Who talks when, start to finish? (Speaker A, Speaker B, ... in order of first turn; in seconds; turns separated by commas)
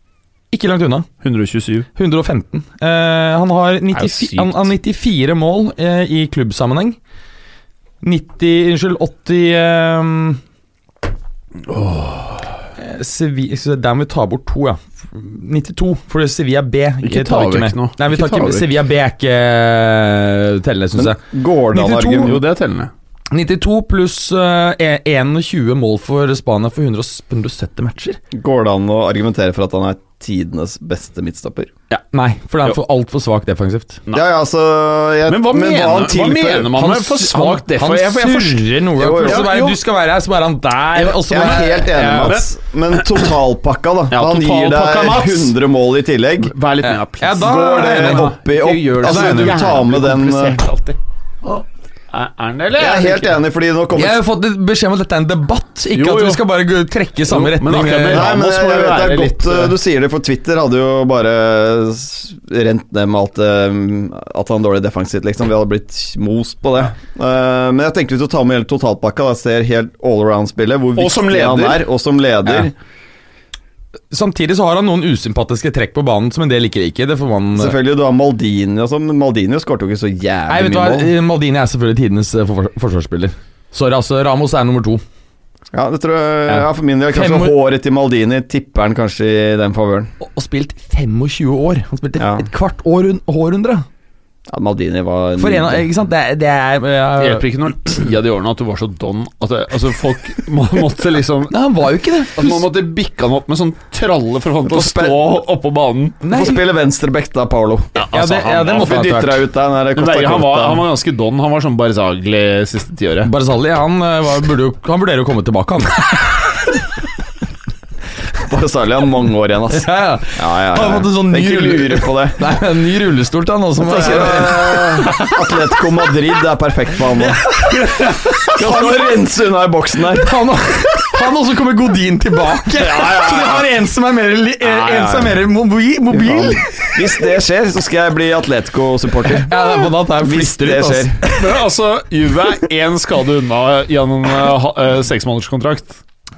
Speaker A: 0.5-1.1, Speaker B: 1.2-1.9, Speaker A: 1.9-7.0, Speaker B: 4.0-4.6, Speaker A: 8.0-10.4, Speaker B: 11.7-12.5, Speaker A: 12.8-21.2, Speaker B: 17.0-18.7, Speaker C: 20.9-22.4, Speaker A: 21.7-22.4, Speaker B: 22.2-22.9, Speaker A: 23.3-28.2, Speaker C: 28.3-31.7, Speaker A: 32.1-34.0, Speaker C: 34.1-36.8, Speaker B: 35.3-38.7, Speaker A: 36.7-42.4, Speaker C: 39.0-39.5, Speaker B: 39.2-39.8, Speaker C: 41.0-46.5, Speaker B: 41.4-43.1, Speaker B: 44.1-45.6, Speaker B: 46.4-51.0, Speaker A: 46.8-48.3, Speaker C: 47.4-50.6, Speaker A: 49.0-49.7, Speaker B: 52.1-53.3, Speaker C: 52.7-54.2, Speaker A: 54.0-58.3, Speaker B: 55.9-56.4, Speaker B: 57.3-59.8, Speaker C: 58.1-72.7, Speaker B: 71.0-71.8, Speaker A: 74.1-77.8, Speaker C: 77.6-81.1, Speaker A: 80.5-85.0, Speaker C: 85.7-90.1, Speaker A: 86.5-87.5, Speaker A: 90.2-93.9, Speaker C: 92.2-92.5, Speaker C: 94.5-95.8, Speaker A: 95.4-97.5, Speaker B: 97.2-101.5, Speaker A: 101.5-102.7, Speaker B: 102.4-106.2, Speaker A: 106.2-106.6, Speaker C: 106.3-108.0, Speaker B: 108.0-109.4, Speaker A: 108.1-109.4, Speaker C: 108.7-110.9, Speaker B: 110.0-113.3, Speaker A: 113.2-116.4, Speaker C: 118.4-122.4, Speaker A: 119.7-125.4, Speaker C: 123.8-127.5, Speaker A: 127.2-129.1, Speaker C: 128.4-130.3, Speaker A: 130.1-137.0, Speaker B: 132.8-133.7, Speaker B: 134.7-135.2, Speaker C: 134.9-135.3, Speaker C: 136.1-141.2, Speaker A: 139.3-141.3, Speaker B: 141.3-146.0